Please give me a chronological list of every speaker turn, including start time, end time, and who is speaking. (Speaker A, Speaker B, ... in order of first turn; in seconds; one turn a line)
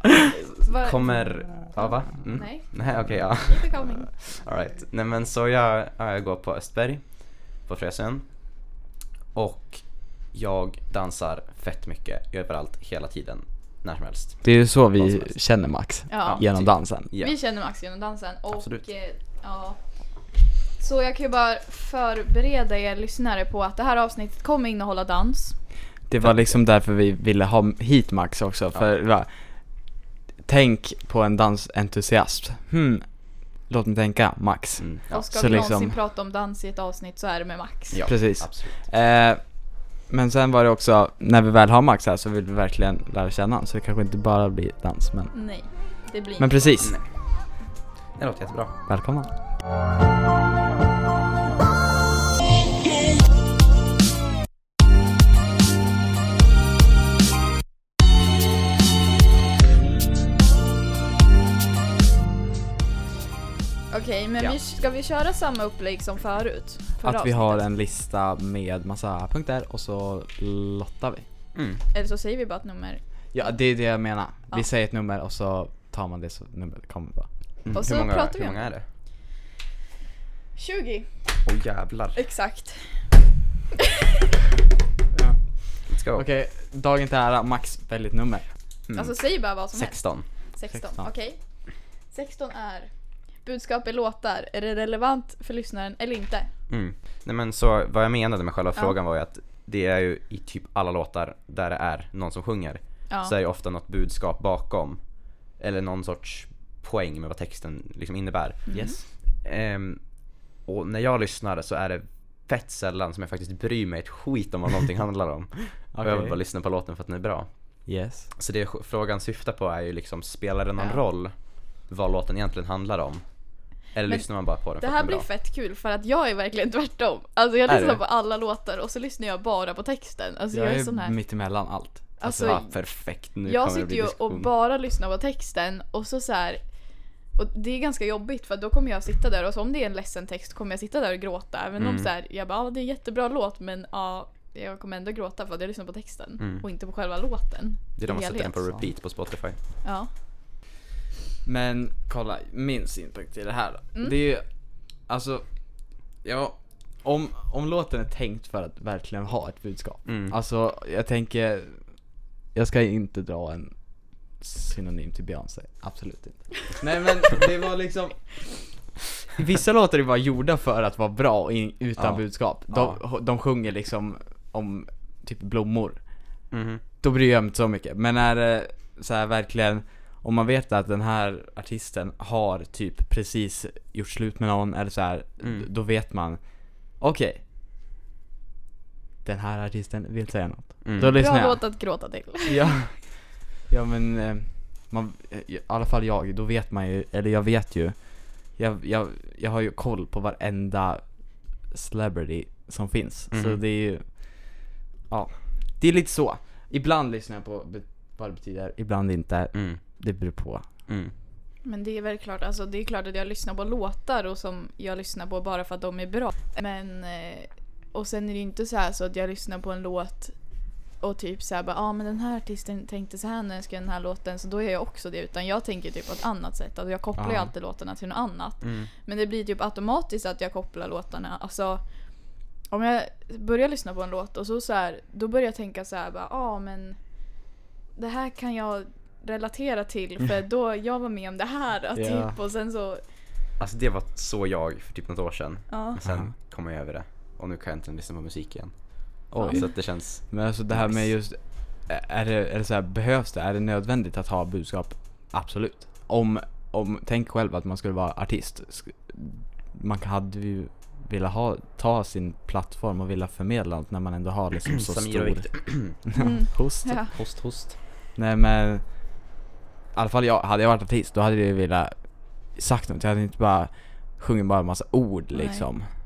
Speaker A: 0.6-2.9
Speaker B: 0.7-8.3
Speaker A: 3.5-4.1
Speaker B: 9.3-15.3
Speaker C: 14.4-17.1
Speaker A: 16.1-16.4
Speaker B: 16.2-17.4
Speaker A: 17.1-19.8
Speaker B: 18.5-18.8
Speaker A: 20.8-25.6
Speaker C: 26.1-29.9
Speaker B: 26.2-26.6
Speaker C: 30.4-36.0
Speaker B: 34.8-35.6
Speaker A: 35.1-38.0
Speaker B: 37.9-38.8
Speaker C: 38.0-45.3
Speaker A: 45.3-46.7
Speaker C: 46.4-47.0
Speaker B: 46.8-47.1
Speaker B: 48.2-48.8
Speaker C: 48.9-49.3
Speaker A: 63.9-67.7
Speaker C: 67.0-71.2
Speaker B: 71.5-71.8
Speaker A: 71.9-73.0
Speaker C: 73.3-77.3
Speaker B: 77.6-78.8
Speaker A: 77.7-78.7
Speaker A: 80.5-81.1
Speaker B: 81.4-82.2
Speaker A: 82.2-82.9
Speaker B: 85.9-86.2
Speaker C: 86.0-88.5
Speaker B: 88.9-90.3
Speaker A: 89.0-91.4
Speaker C: 90.7-91.1
Speaker A: 92.1-92.9
Speaker A: 93.4-96.5
Speaker B: 96.7-108.8
Speaker A: 108.7-109.0
Speaker C: 108.7-109.0
Speaker B: 109.4-125.3
Speaker C: 115.9-116.4
Speaker C: 117.8-118.3
Speaker A: 124.1-131.2
Speaker C: 127.7-128.0
Speaker C: 130.5-132.6
Speaker A: 132.2-136.6
Speaker B: 132.4-134.5
Speaker A: 137.3-148.8
Speaker B: 141.8-142.1
Speaker B: 146.4-146.7
Speaker B: 148.0-149.6
Speaker A: 149.8-150.1
Speaker C: 151.4-154.5
Speaker C: 155.1-155.5
Speaker C: 156.2-161.8
Speaker B: 160.0-160.3
Speaker C: 162.5-163.8
Speaker C: 164.3-176.3
Speaker B: 172.0-173.0
Speaker B: 176.5-176.8
Speaker C: 177.0-187.4
Speaker B: 185.4-185.7
Speaker C: 189.2-210.7
Speaker B: 190.8-191.2
Speaker A: 191.2-192.6
Speaker B: 203.3-203.6
Speaker B: 209.5-209.8
Speaker B: 210.9-211.1
Speaker A: 211.6-220.3
Speaker A: 221.0-231.8
Speaker C: 227.2-227.5
Speaker B: 228.6-228.9
Speaker A: 232.7-237.0
Speaker A: 237.9-243.0
Speaker C: 241.9-242.4
Speaker B: 243.6-251.1
Speaker A: 245.7-246.0
Speaker C: 246.0-246.3
Speaker C: 249.3-266.9
Speaker A: 249.4-249.7
Speaker B: 264.6-265.9
Speaker A: 266.1-267.1
Speaker B: 266.6-267.8
Speaker C: 268.1-268.9
Speaker C: 269.9-275.9
Speaker A: 275.3-275.6